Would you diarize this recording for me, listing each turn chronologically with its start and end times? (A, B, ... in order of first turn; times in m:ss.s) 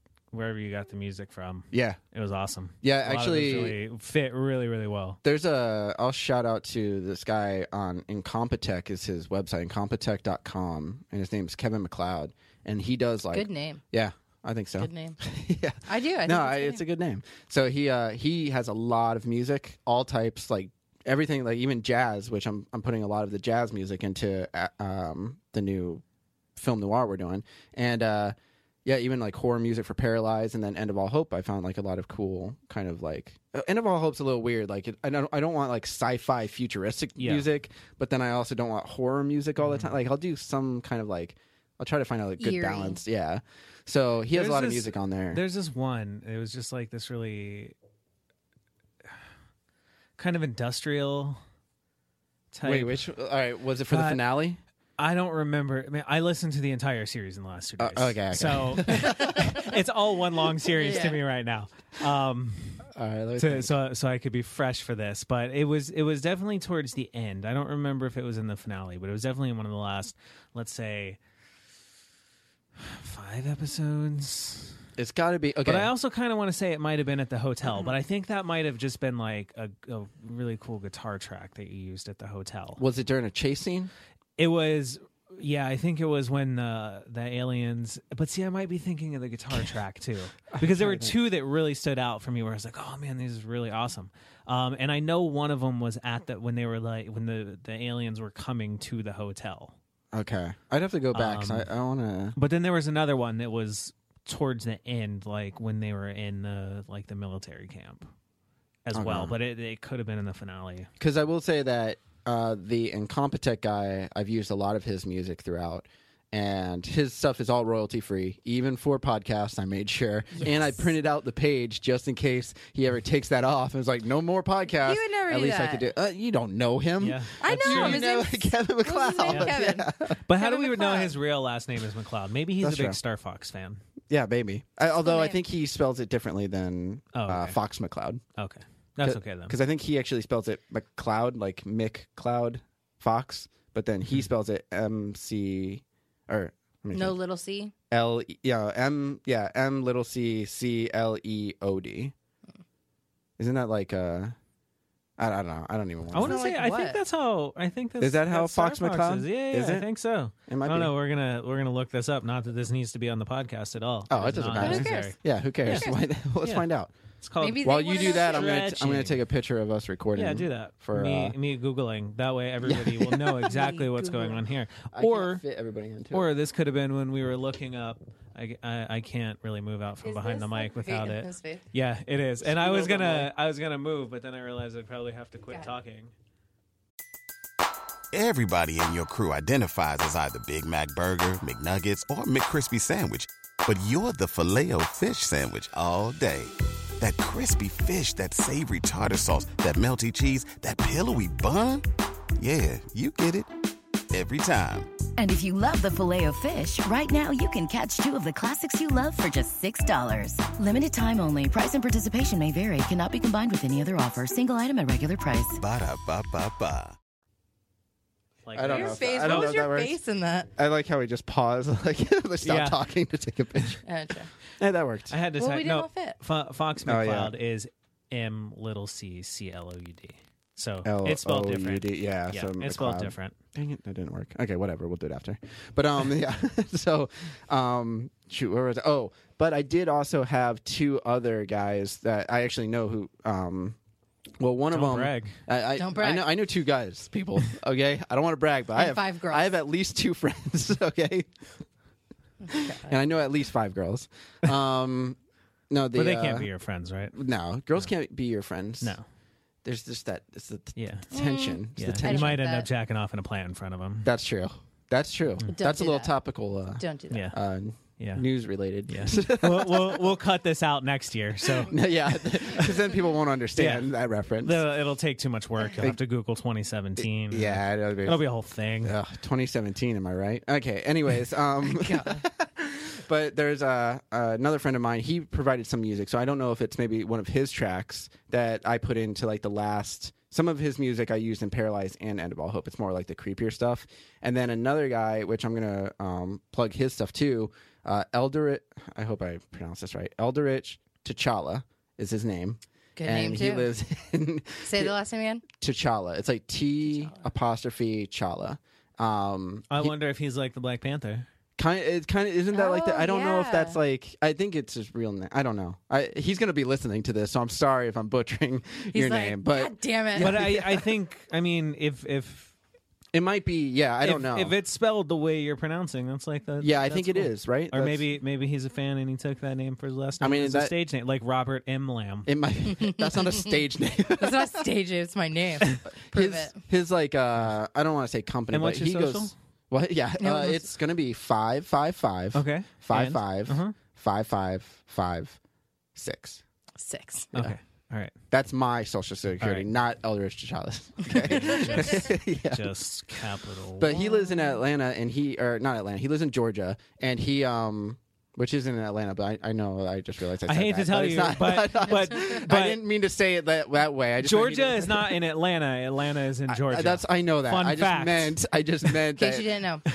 0:00.3-0:05.2 A
0:01.7-0:02.0 B
0:02.8-0:03.8 B
0:05.2-0:26.0 B
0:13.3-0:13.8 C
0:14.8-0:15.2 C
0:15.8-0:16.8 C
0:26.6-0:45.4 B
0:37.2-0:37.4 A
0:39.6-0:39.9 A
0:42.4-0:43.0 C
0:44.3-0:47.7 A
0:50.2-0:51.4 A
0:52.5-0:53.0 A
0:52.6-0:54.6 B
0:53.9-0:54.2 A
0:55.0-1:02.8 A
0:57.8-0:59.5 B
0:59.1-0:59.5 C
1:00.8-1:01.2 C
1:02.9-1:03.7 B
1:03.4-1:11.2 A
1:12.8-1:14.7 A
1:15.0-1:15.9 B
1:15.6-1:22.8 A
1:22.8-1:23.9 B
1:24.4-1:39.7 A
1:30.5-1:31.1 B
1:40.1-1:42.4 B
1:41.1-1:41.7 A
1:42.3-1:48.0 A
1:48.8-1:50.9 A
1:48.9-1:49.4 B
1:51.0-2:10.2 B
2:00.3-2:00.9 C
2:04.8-2:05.9 C
2:07.0-2:08.0 A
2:07.4-2:11.1 C
2:09.3-2:09.6 A
2:10.3-2:13.8 A
2:12.6-2:13.0 B
2:14.1-2:18.2 B
2:14.9-2:15.4 C
2:17.1-2:17.6 A
2:18.4-2:19.6 A
2:19.0-2:27.2 B
2:26.9-2:27.7 C
2:27.9-2:32.1 B
2:33.4-2:34.3 B
2:35.2-2:36.4 B
2:36.1-2:37.0 C
2:36.1-2:45.8 A
2:38.0-2:39.9 B
2:40.5-2:40.9 B
2:44.1-2:46.9 B
2:44.6-2:45.2 C
2:45.7-2:46.0 C
2:47.2-2:49.2 A
2:47.4-2:48.5 C
2:47.6-2:51.3 B
2:50.1-2:55.4 A
2:52.6-2:53.6 B
2:53.5-2:54.4 C
2:54.9-2:56.3 B
2:56.1-3:06.1 A
3:00.0-3:01.6 C
3:02.4-3:03.3 B
3:08.1-3:21.8 D
3:22.4-3:23.5 D
3:24.1-3:24.9 D
3:25.2-3:35.6 E
3:35.6-3:36.9 D
3:38.4-3:39.6 A
3:38.5-3:40.0 B
3:38.7-3:40.5 C
3:40.6-3:43.8 B
3:42.4-3:42.8 A
3:43.8-3:44.3 C
3:44.6-3:45.1 B
3:45.1-3:53.3 A
3:45.4-3:46.2 C
3:46.8-3:47.3 B
3:50.8-4:03.8 B
4:04.4-4:11.3 B
4:04.7-4:05.3 A
4:05.8-4:06.3 C
4:08.7-4:09.6 C
4:12.4-4:12.9 C
4:12.5-4:15.2 B
4:15.7-4:16.5 B
4:15.9-4:17.2 A
4:17.1-4:19.0 B
4:19.6-4:22.4 B
4:20.8-4:21.1 A
4:21.1-4:22.7 C
4:21.8-4:24.1 A
4:24.0-4:30.2 B
4:25.5-4:26.1 C
4:26.8-4:27.3 C
4:27.1-4:27.4 A
4:28.0-4:28.2 A
4:28.9-4:31.8 A
4:31.6-4:34.6 B
4:33.6-4:33.9 A
4:34.4-4:38.9 A
4:37.0-4:38.2 B
4:38.8-5:04.9 B
4:41.6-4:42.2 C
5:03.0-5:03.7 C
5:04.6-5:05.4 C
5:05.5-5:09.9 B
5:06.8-5:07.3 C
5:09.7-5:11.2 A
5:11.6-5:20.9 B
5:12.5-5:13.8 C
5:18.9-5:20.4 C
5:20.2-5:22.5 A
5:23.1-5:24.5 B
5:24.0-5:32.3 A
5:26.6-5:28.0 B
5:30.2-5:30.7 B
5:32.2-5:34.6 B
5:32.6-5:33.6 C
5:34.2-5:36.6 C
5:36.0-5:45.4 B
5:38.5-5:39.3 A
5:40.2-5:40.7 C
5:42.3-5:43.8 A
5:45.9-5:46.4 B
5:46.8-5:47.3 C
5:47.3-5:48.1 A
5:48.3-5:52.7 B
5:49.4-5:49.7 A
5:51.1-5:53.9 A
5:53.8-6:05.2 B
5:53.9-5:54.6 C
6:00.5-6:02.8 A
6:04.2-6:08.3 A
6:06.5-6:09.5 B
6:09.2-6:09.8 C